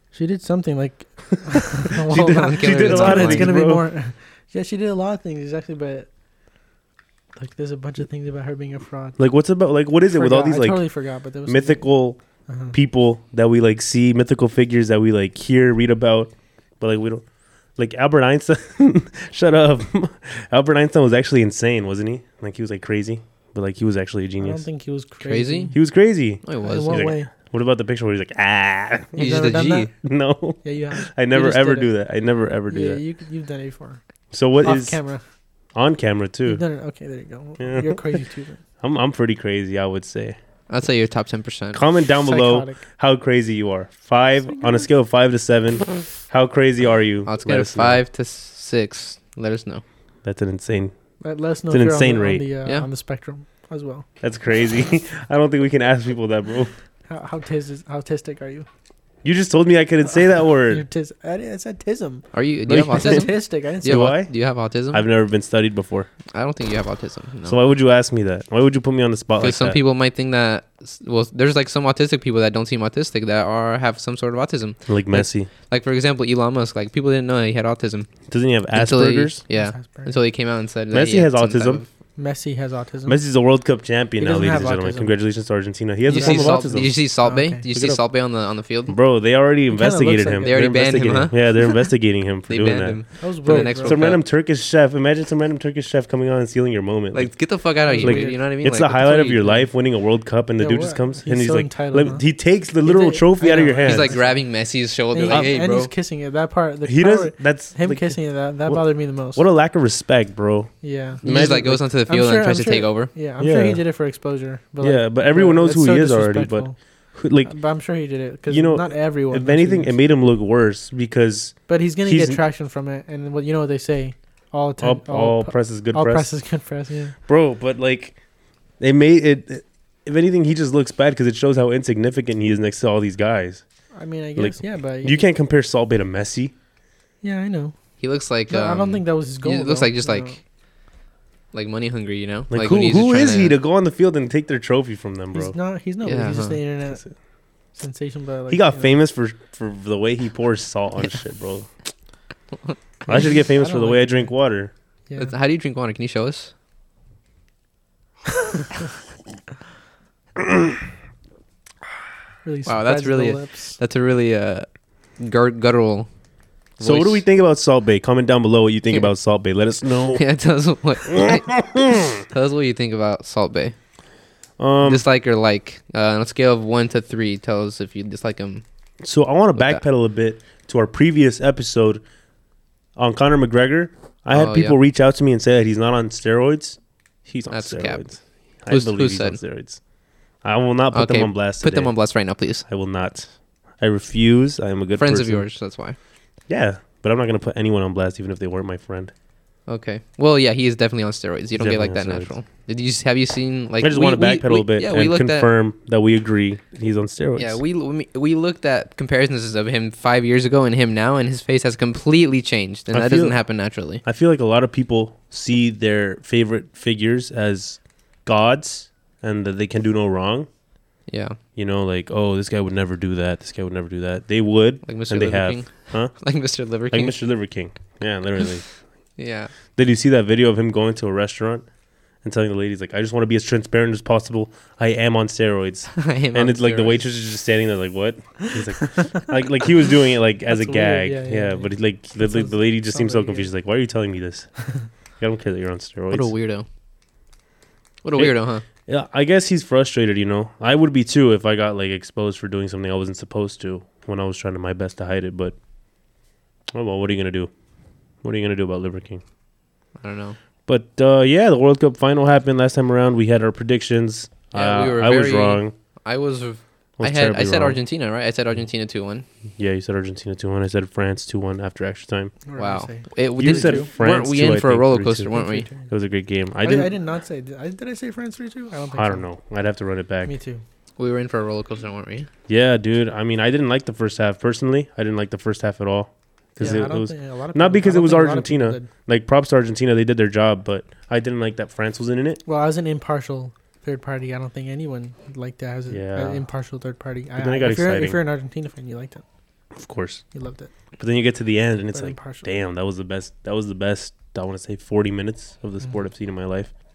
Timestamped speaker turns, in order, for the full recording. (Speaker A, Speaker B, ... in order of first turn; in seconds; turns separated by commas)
Speaker A: 0.1-6.1, Speaker B: 2.0-3.9, Speaker C: 2.1-3.5, Speaker A: 7.4-9.2, Speaker B: 9.2-10.9, Speaker A: 10.1-11.9, Speaker B: 11.5-12.2, Speaker A: 12.5-12.8, Speaker B: 12.7-17.2, Speaker B: 17.8-24.6, Speaker A: 24.4-25.8, Speaker C: 25.2-25.8, Speaker B: 25.7-29.1, Speaker C: 26.5-27.2, Speaker A: 26.6-27.3, Speaker A: 29.1-29.9, Speaker C: 29.2-29.9, Speaker B: 30.0-33.0, Speaker A: 30.6-31.9, Speaker A: 32.7-34.0, Speaker B: 34.3-35.0, Speaker A: 34.6-35.2, Speaker B: 35.8-36.6, Speaker A: 36.5-38.6, Speaker B: 37.6-38.2, Speaker B: 38.8-40.4, Speaker C: 40.7-41.8, Speaker B: 41.7-48.0, Speaker A: 42.2-42.8, Speaker C: 47.3-49.8, Speaker B: 50.2-50.9, Speaker A: 51.2-54.1, Speaker B: 51.7-52.5, Speaker B: 54.2-56.7, Speaker A: 57.1-58.7, Speaker B: 59.2-60.8, Speaker A: 60.7-62.2, Speaker C: 62.3-65.0, Speaker B: 62.7-63.3, Speaker A: 62.9-64.2, Speaker B: 63.9-64.3, Speaker B: 64.9-66.1, Speaker C: 66.3-67.6, Speaker B: 67.5-69.8, Speaker C: 69.4-78.1, Speaker B: 74.9-75.5, Speaker B: 78.3-79.4, Speaker C: 78.7-81.9, Speaker A: 79.5-80.2, Speaker B: 80.9-81.8, Speaker A: 82.2-83.2, Speaker B: 83.1-87.0, Speaker A: 84.2-85.1, Speaker C: 86.1-89.0, Speaker A: 86.1-86.7, Speaker A: 87.2-87.6, Speaker B: 87.7-88.0, Speaker B: 88.9-97.3, Speaker A: 89.7-90.7, Speaker C: 90.4-91.4, Speaker C: 92.5-94.2, Speaker A: 93.2-94.1, Speaker C: 97.1-99.6, Speaker A: 97.8-98.4, Speaker B: 98.0-104.2, Speaker A: 100.6-102.2, Speaker A: 102.8-104.4, Speaker C: 103.8-105.9, Speaker A: 105.1-109.4, Speaker B: 106.8-111.8, Speaker A: 110.8-116.8, Speaker C: 111.2-113.1, Speaker B: 113.4-113.8, Speaker B: 114.8-117.5, Speaker A: 117.5-120.0, Speaker B: 118.5-122.4, Speaker A: 121.7-127.2, Speaker B: 124.8-126.3, Speaker B: 127.3-128.2, Speaker B: 128.8-133.6, Speaker A: 133.9-135.3, Speaker B: 134.4-136.5, Speaker A: 137.2-137.8, Speaker C: 138.0-140.4, Speaker A: 138.5-140.4, Speaker C: 141.5-143.6, Speaker B: 142.5-145.6, Speaker A: 145.3-147.1, Speaker C: 146.0-146.6, Speaker A: 147.8-148.9, Speaker B: 148.5-151.7, Speaker B: 153.1-154.7, Speaker A: 153.1-154.3, Speaker C: 155.2-156.5, Speaker B: 160.4-160.7, Speaker A: 162.4-163.8, Speaker C: 162.7-164.7, Speaker C: 165.2-166.1, Speaker C: 166.8-167.2, Speaker B: 166.8-170.2, Speaker C: 170.1-173.8, Speaker B: 171.1-172.2, Speaker B: 174.6-175.0, Speaker C: 174.8-178.6, Speaker B: 179.0-182.0, Speaker C: 179.6-179.8, Speaker B: 183.0-189.8, Speaker C: 184.3-184.8, Speaker C: 187.5-188.2, Speaker C: 188.7-189.4, Speaker B: 190.4-191.9, Speaker C: 190.9-192.7, Speaker B: 192.7-195.5, Speaker C: 194.9-196.0, Speaker B: 196.5-199.1, Speaker C: 199.7-205.5, Speaker B: 201.6-202.3, Speaker B: 203.8-207.6, Speaker C: 207.4-214.0, Speaker B: 212.9-213.4, Speaker B: 214.0-220.5, Speaker C: 221.1-221.4, Speaker B: 221.6-226.1, Speaker C: 224.9-227.2, Speaker B: 226.9-228.6, Speaker C: 229.2-229.5, Speaker B: 229.8-231.7, Speaker B: 232.2-244.5, Speaker C: 236.0-237.0, Speaker A: 238.4-239.3, Speaker A: 240.5-243.5, Speaker B: 245.2-246.3, Speaker C: 246.1-246.7, Speaker C: 248.0-248.6, Speaker B: 248.9-255.6, Speaker B: 256.7-257.5, Speaker B: 258.2-259.2, Speaker C: 260.0-260.4, Speaker B: 260.7-265.7, Speaker C: 264.5-269.3, Speaker B: 267.0-267.8, Speaker B: 269.6-272.4, Speaker A: 272.5-273.9, Speaker C: 272.6-275.7, Speaker B: 273.4-276.9, Speaker A: 275.3-275.9, Speaker A: 276.6-279.2, Speaker B: 278.9-280.3, Speaker A: 280.3-280.6, Speaker C: 281.0-282.3, Speaker B: 282.5-292.4, Speaker A: 286.6-288.9, Speaker A: 292.5-299.2, Speaker B: 295.9-296.4, Speaker B: 297.4-298.2, Speaker B: 299.8-300.2, Speaker A: 300.3-300.7, Speaker B: 301.0-306.7, Speaker A: 301.9-302.5